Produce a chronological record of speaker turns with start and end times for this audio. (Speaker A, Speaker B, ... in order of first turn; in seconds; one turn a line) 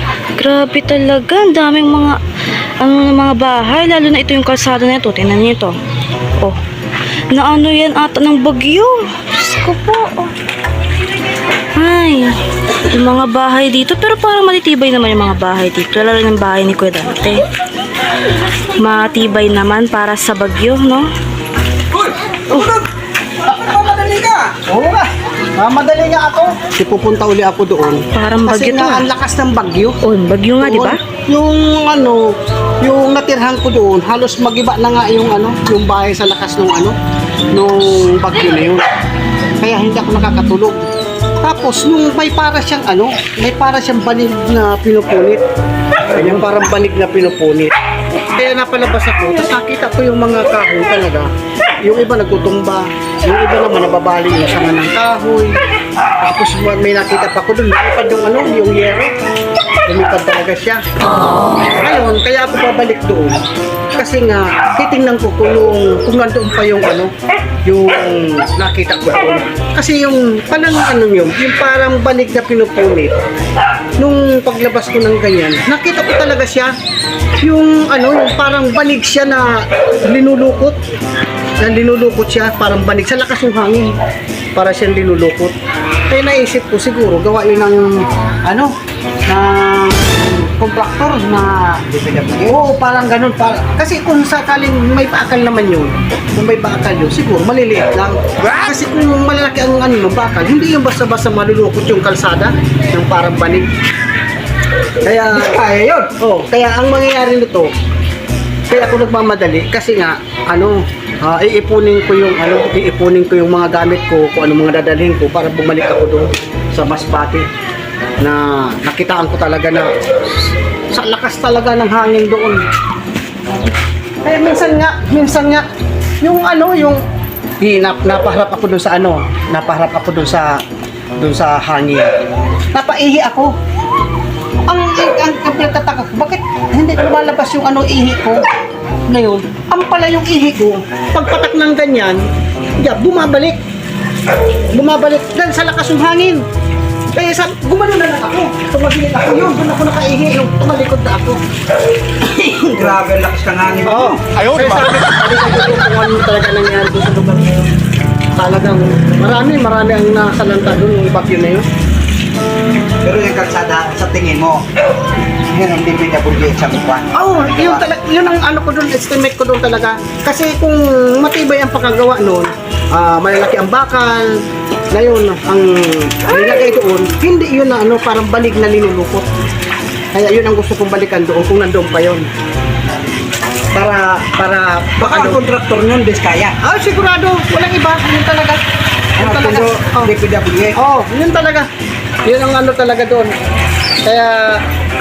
Speaker A: 0.4-2.1
Speaker A: 2.8-5.7
Speaker A: 7.3-10.3
Speaker A: 11.7-12.3
Speaker A: 12.9-17.5
Speaker A: 18.8-21.1
Speaker B: 21.9-22.9
Speaker B: 23.4-24.6
Speaker C: 24.7-30.0
Speaker A: 28.1-29.0
Speaker A: 30.0-31.0
Speaker C: 30.6-36.9
Speaker C: 37.5-38.9
Speaker C: 39.6-40.8
Speaker C: 41.4-45.4
Speaker C: 46.1-47.7
Speaker C: 48.3-51.3
Speaker C: 51.8-55.6
Speaker C: 56.2-59.1
Speaker C: 59.9-63.4
Speaker C: 64.0-67.1
Speaker C: 67.6-73.2
Speaker C: 74.0-76.7
Speaker C: 77.4-80.8
Speaker C: 81.6-83.9
Speaker C: 84.5-85.5
Speaker C: 86.1-88.7
Speaker C: 89.3-103.7
Speaker B: 92.0-92.4
Speaker B: 105.0-106.1
Speaker C: 105.0-105.4
Speaker C: 106.2-107.7
Speaker C: 108.7-117.5
Speaker C: 118.2-122.6
Speaker C: 124.2-125.7
Speaker C: 126.2-127.0
Speaker C: 127.6-130.6
Speaker C: 131.2-132.1
Speaker C: 132.7-133.5
Speaker C: 134.7-138.4
Speaker C: 139.1-142.2
Speaker C: 142.8-143.6
Speaker C: 144.7-146.4
Speaker C: 147.1-151.4
Speaker B: 152.2-154.4
Speaker C: 153.8-157.7
Speaker C: 158.4-161.6
Speaker B: 163.0-164.6
Speaker B: 165.5-167.8
Speaker C: 167.1-179.2
Speaker C: 180.1-182.3
Speaker C: 183.7-185.4
Speaker B: 185.0-186.6
Speaker C: 186.6-188.6
Speaker C: 189.2-190.1
Speaker B: 189.2-190.8
Speaker C: 190.7-191.7
Speaker C: 192.2-193.3
Speaker C: 194.0-194.6